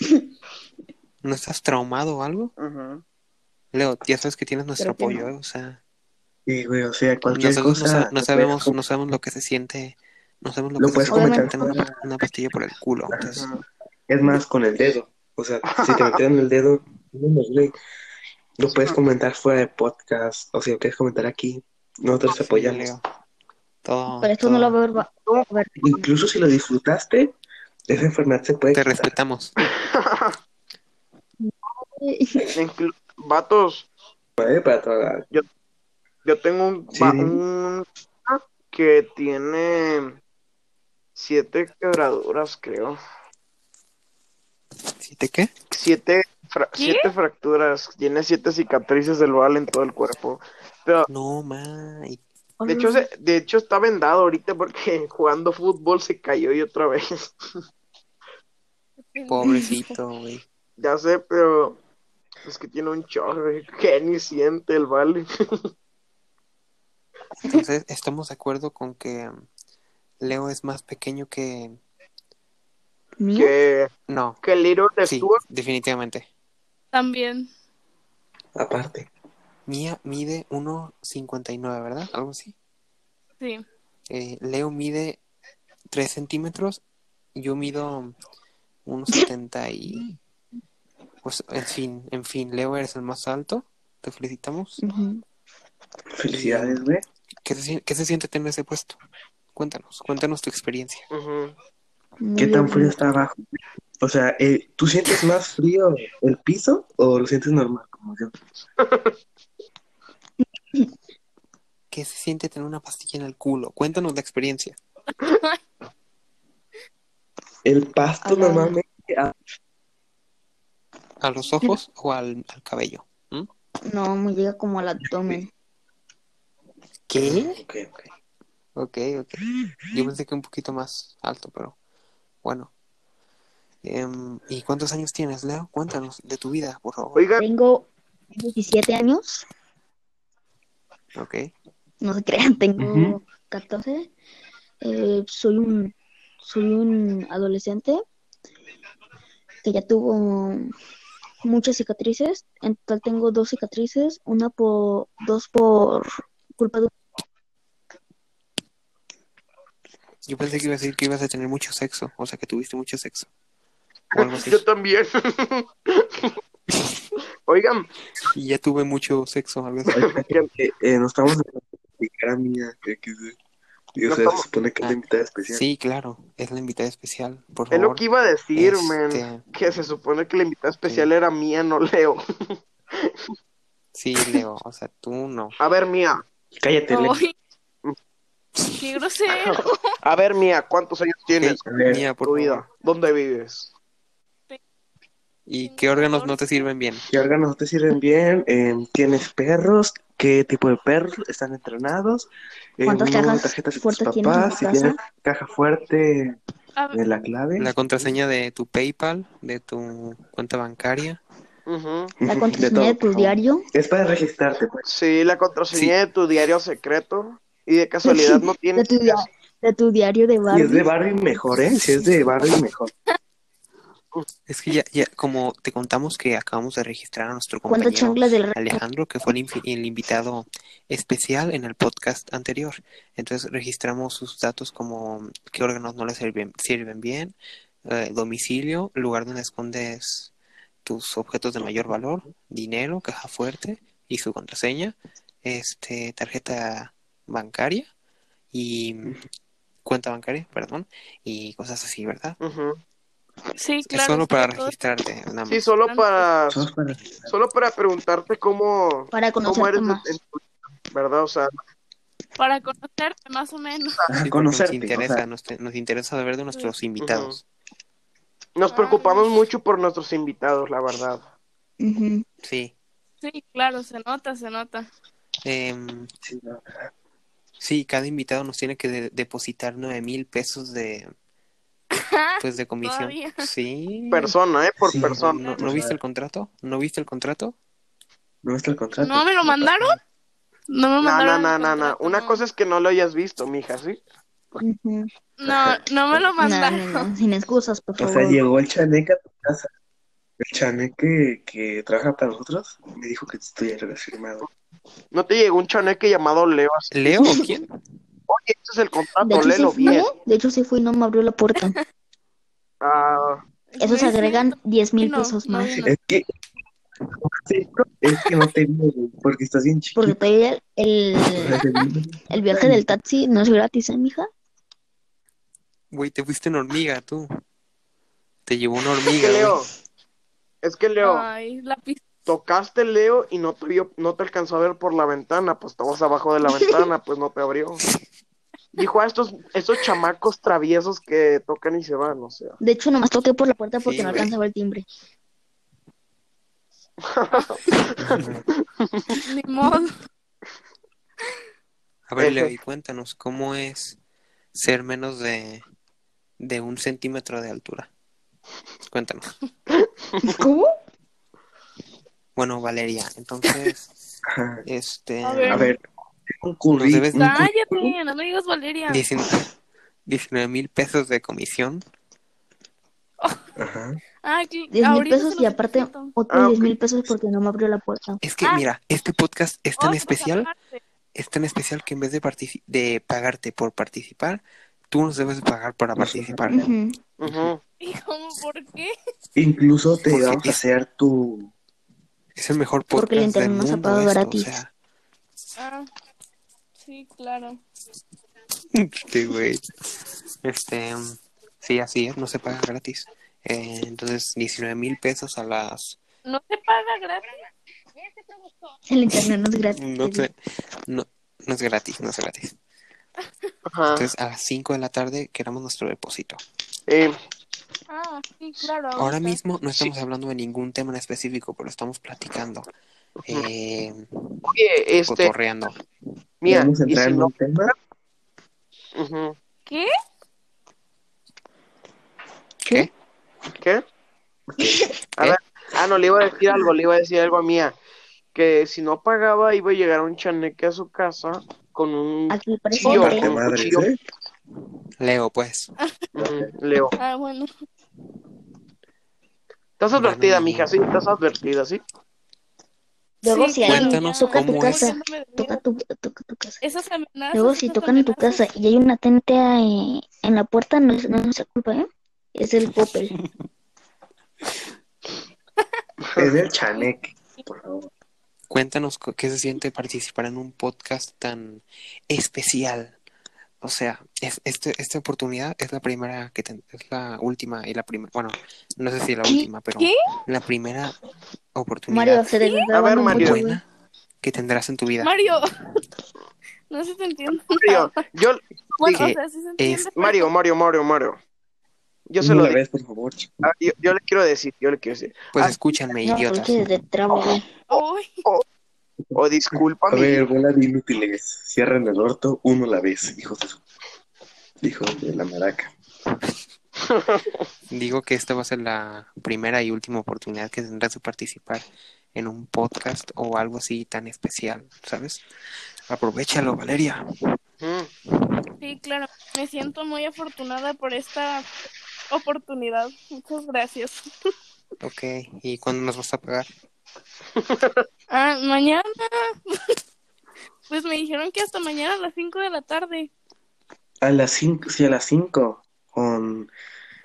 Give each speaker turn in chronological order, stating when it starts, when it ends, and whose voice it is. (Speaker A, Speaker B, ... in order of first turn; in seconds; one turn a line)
Speaker A: 1.2-2.5
Speaker B: 2.6-3.0
Speaker A: 3.7-5.8
Speaker C: 4.8-5.3
Speaker D: 6.5-8.8
Speaker A: 7.3-13.5
Speaker D: 10.8-12.0
Speaker C: 11.1-11.8
Speaker D: 13.1-13.4
Speaker B: 13.4-13.6
Speaker D: 14.1-17.7
Speaker B: 15.7-16.2
Speaker D: 18.6-22.9
Speaker A: 22.3-23.0
Speaker A: 23.8-24.8
Speaker C: 24.2-26.1
Speaker D: 25.8-27.3
Speaker D: 27.9-29.1
Speaker A: 28.7-29.5
Speaker B: 29.6-30.4
Speaker C: 31.4-32.5
Speaker B: 32.5-33.9
Speaker D: 34.4-35.3
Speaker B: 36.2-40.2
Speaker D: 36.9-37.4
Speaker B: 41.1-43.0
Speaker A: 45.0-45.5
Speaker B: 45.7-51.1
Speaker E: 46.8-47.1
Speaker A: 51.1-52.2
Speaker C: 52.6-53.0
Speaker B: 52.6-57.2
Speaker E: 59.1-59.6
Speaker A: 59.3-60.4
Speaker C: 59.4-59.8
Speaker B: 60.8-61.8
Speaker B: 62.4-65.6
Speaker A: 67.5-69.4
Speaker A: 70.2-71.8
Speaker C: 73.2-73.5
Speaker B: 73.3-73.9
Speaker A: 74.1-74.4
Speaker B: 74.4-75.4
Speaker A: 75.0-76.3
Speaker E: 76.9-77.5
Speaker D: 78.5-79.1
Speaker A: 79.7-82.5
Speaker A: 84.1-85.2
Speaker A: 85.9-86.8
Speaker A: 87.3-88.1
Speaker A: 88.8-90.1
Speaker A: 91.2-94.8
Speaker C: 94.8-95.2
Speaker D: 96.1-97.0
Speaker A: 96.3-96.8
Speaker A: 97.4-99.0
Speaker A: 99.5-101.0
Speaker B: 101.1-101.5
Speaker C: 102.2-103.0
Speaker D: 102.4-103.4
Speaker D: 104.0-108.3
Speaker B: 108.8-109.2
Speaker C: 110.4-110.9
Speaker A: 111.9-114.8
Speaker E: 115.2-115.6
Speaker D: 117.6-119.3
Speaker C: 118.2-118.8
Speaker A: 121.2-123.5
Speaker C: 123.8-125.5
Speaker D: 125.0-125.4
Speaker A: 127.1-127.6
Speaker D: 127.2-128.1
Speaker A: 128.8-131.8
Speaker A: 132.4-132.7
Speaker A: 133.8-137.3
Speaker B: 137.1-137.4
Speaker C: 137.4-139.4
Speaker A: 141.1-141.5
Speaker C: 142.0-144.1
Speaker D: 142.8-143.2
Speaker C: 144.8-148.0
Speaker C: 149.6-150.7
Speaker C: 151.4-156.9
Speaker A: 160.2-163.3
Speaker A: 164.1-164.6
Speaker B: 164.1-166.4
Speaker A: 166.7-167.1
Speaker B: 167.5-167.9
Speaker A: 168.3-170.0
Speaker D: 169.9-173.4
Speaker B: 169.9-170.5
Speaker D: 173.9-175.6
Speaker B: 174.1-174.4
Speaker A: 174.8-178.0
Speaker B: 177.7-183.1
Speaker A: 178.5-179.4
Speaker A: 183.9-185.6
Speaker B: 185.6-186.2
Speaker D: 186.6-187.2
Speaker E: 186.9-187.3
Speaker E: 188.8-190.0
Speaker B: 189.4-191.6
Speaker A: 191.4-192.7
Speaker D: 191.6-192.0
Speaker B: 192.2-193.7
Speaker A: 195.5-197.0
Speaker E: 195.6-196.7
Speaker D: 197.1-202.3
Speaker D: 202.8-206.4
Speaker C: 202.8-204.9
Speaker D: 206.9-207.7
Speaker A: 207.6-211.2
Speaker B: 211.7-212.1
Speaker D: 212.2-214.8
Speaker C: 212.2-213.6
Speaker B: 214.8-219.3
Speaker C: 218.0-220.9
Speaker D: 220.5-222.9
Speaker A: 224.5-240.3
Speaker C: 227.7-228.8
Speaker A: 240.8-247.9
Speaker A: 248.5-249.2
Speaker A: 249.8-252.4
Speaker B: 252.4-252.8
Speaker E: 253.6-254.7
Speaker A: 253.9-255.6
Speaker B: 255.5-256.7
Speaker E: 255.8-256.2
Speaker D: 256.5-257.3
Speaker B: 257.2-261.5
Speaker C: 259.1-260.1
Speaker E: 262.4-264.0
Speaker D: 264.1-265.2
Speaker A: 264.2-267.4
Speaker B: 267.0-267.4
Speaker B: 268.6-271.2
Speaker E: 268.7-269.3
Speaker C: 271.8-272.2
Speaker A: 272.4-272.7
Speaker E: 273.2-274.9
Speaker A: 275.4-276.1
Speaker D: 276.2-276.9
Speaker A: 277.6-281.1
Speaker E: 281.9-283.5
Speaker A: 282.4-284.3
Speaker B: 284.1-285.4
Speaker D: 284.8-286.0
Speaker A: 285.0-287.5
Speaker E: 285.2-285.8
Speaker D: 288.4-289.8
Speaker E: 289.0-290.0
Speaker E: 290.7-292.4
Speaker B: 291.0-294.0
Speaker C: 294.6-295.1
Speaker E: 295.4-297.1
Speaker D: 295.5-296.3
Speaker C: 296.4-298.4
Speaker D: 298.0-299.7
Speaker D: 300.4-304.4
Speaker B: 305.1-307.4
Speaker A: 306.9-307.7
Speaker B: 308.3-310.1
Speaker C: 309.2-311.8
Speaker B: 312.8-313.4
Speaker E: 313.7-315.9
Speaker C: 313.8-315.9
Speaker D: 315.8-316.2
Speaker D: 317.1-320.2
Speaker C: 319.9-321.6
Speaker D: 321.3-322.8
Speaker C: 322.3-324.3
Speaker A: 325.9-327.3
Speaker A: 328.5-329.6
Speaker B: 329.2-329.7
Speaker B: 330.6-331.3
Speaker E: 331.0-332.1
Speaker B: 332.2-337.8
Speaker B: 338.8-342.6
Speaker C: 342.6-344.8
Speaker A: 343.8-344.3
Speaker B: 347.0-348.2
Speaker A: 348.0-348.4
Speaker B: 348.8-349.1
Speaker E: 349.2-349.9
Speaker A: 352.1-354.0
Speaker B: 352.2-352.5
Speaker A: 354.5-355.6
Speaker A: 356.4-357.9
Speaker A: 358.9-359.3
Speaker B: 359.7-360.4
Speaker C: 360.2-360.7
Speaker A: 362.4-363.9
Speaker D: 364.2-364.6
Speaker A: 364.6-365.7
Speaker E: 365.2-365.7
Speaker D: 365.5-367.9
Speaker A: 366.7-367.4
Speaker E: 367.1-369.1
Speaker A: 368.9-369.5
Speaker A: 370.1-371.8
Speaker D: 373.6-374.0
Speaker E: 374.2-376.1
Speaker C: 374.7-378.2
Speaker B: 376.3-376.7
Speaker A: 378.2-380.5
Speaker E: 379.8-380.8
Speaker A: 381.1-386.7
Speaker D: 386.0-386.4
Speaker C: 386.5-387.0
Speaker B: 387.2-387.6
Speaker E: 387.8-388.9
Speaker D: 389.4-391.5
Speaker A: 390.1-390.6
Speaker A: 392.4-394.7
Speaker C: 392.9-394.6
Speaker E: 395.6-395.9
Speaker E: 396.8-397.6
Speaker A: 398.7-399.7
Speaker A: 400.4-406.0
Speaker E: 406.2-407.4
Speaker C: 408.9-410.3
Speaker A: 409.8-410.3
Speaker A: 410.9-412.5
Speaker B: 413.7-414.1
Speaker A: 413.9-416.4
Speaker B: 416.9-417.1
Speaker E: 417.9-419.4
Speaker A: 419.0-422.7
Speaker A: 423.2-424.4
Speaker B: 424.4-425.3
Speaker A: 425.1-425.8
Speaker B: 426.4-427.3
Speaker D: 426.5-427.7
Speaker B: 428.9-429.4
Speaker A: 432.6-432.9
Speaker B: 433.6-433.8
Speaker B: 435.2-437.8
Speaker B: 438.3-443.8
Speaker C: 442.3-443.3
Speaker D: 442.8-444.0
Speaker A: 445.0-445.7
Speaker E: 445.8-446.1
Speaker D: 446.1-446.5
Speaker B: 446.2-446.9
Speaker E: 446.9-447.5
Speaker B: 449.8-451.8
Speaker A: 449.9-450.7
Speaker C: 453.2-456.6
Speaker E: 453.2-455.6
Speaker A: 453.6-454.9
Speaker E: 456.6-458.4
Speaker C: 457.3-463.1
Speaker D: 466.1-467.9
Speaker A: 468.5-472.9
Speaker A: 473.6-481.0
Speaker E: 479.8-480.1
Speaker A: 481.5-482.3
Speaker C: 481.9-483.6
Speaker E: 482.4-482.7
Speaker B: 482.7-483.4
Speaker A: 483.0-483.6
Speaker A: 484.2-485.1
Speaker E: 485.0-485.8
Speaker E: 486.7-488.0
Speaker B: 487.4-489.0
Speaker E: 488.8-490.3
Speaker A: 488.9-489.9
Speaker B: 489.9-491.2
Speaker B: 492.1-492.6
Speaker D: 492.2-493.3
Speaker B: 493.4-495.6
Speaker A: 495.3-496.6
Speaker C: 496.0-497.4
Speaker E: 497.7-498.3
Speaker B: 499.1-500.2
Speaker D: 499.5-503.6
Speaker D: 504.6-505.7
Speaker B: 506.8-507.4
Speaker A: 507.7-515.2
Speaker A: 515.9-517.0
Speaker B: 517.6-517.9
Speaker E: 518.6-521.5
Speaker E: 522.1-524.1
Speaker A: 524.8-526.5
Speaker B: 527.4-527.9
Speaker E: 528.1-529.8
Speaker E: 530.7-533.1
Speaker D: 534.0-536.5